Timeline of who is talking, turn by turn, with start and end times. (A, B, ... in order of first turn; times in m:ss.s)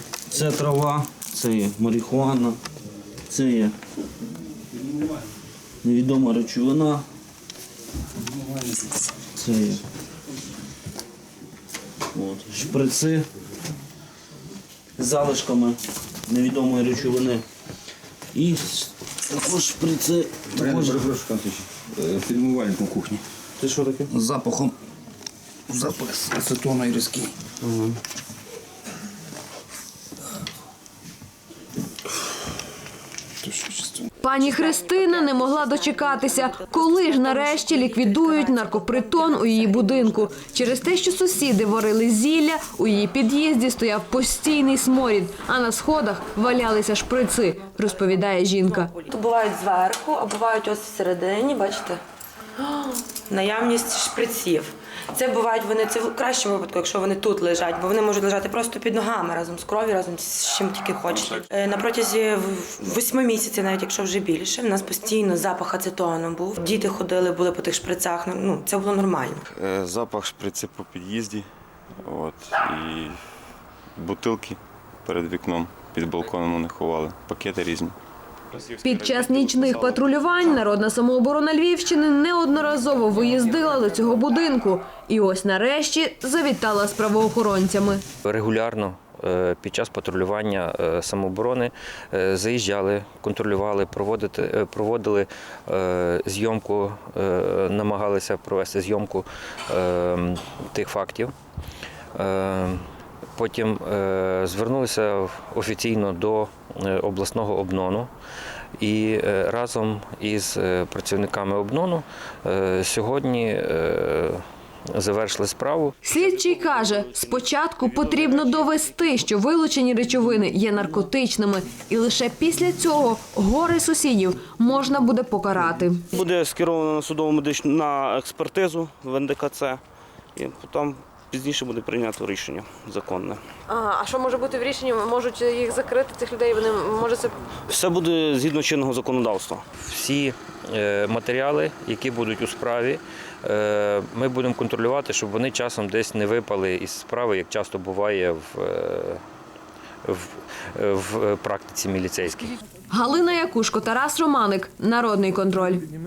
0:00.3-0:02.6 A
0:03.3-0:03.7 A
0:05.8-0:07.0 A
0:09.3-0:09.8 A
0:12.1-0:13.3 A
0:15.0-0:17.4 A
0:18.3-0:21.2 A
0:20.5-0:23.2 B
0:23.6-0:24.1 A
0:24.1-0:24.8 B
0:25.7-0:27.3 B
0:27.6-0:28.0 A
0:33.4-0:34.1 B
0:34.2-0:48.9 C
0:34.3-0:40.1 D
0:47.8-0:52.0 D
0:52.6-1:09.5 D
1:09.5-1:11.5 E
1:12.0-1:13.2 E
1:14.0-1:18.0 E
1:18.7-1:28.0 C
1:19.4-1:19.7 E
1:28.2-1:41.3 F
1:42.1-1:42.8 F
1:43.3-1:48.1 F
1:48.8-1:54.4 F
1:54.9-1:55.9 F
1:56.0-2:06.1 C
1:56.1-1:59.2 A
2:06.1-2:09.8 A
2:10.3-2:13.4 A
2:13.7-2:17.3 C
2:17.7-2:19.6 A
2:19.8-2:29.2 F
2:30.0-2:32.6 F
2:32.9-2:35.8 C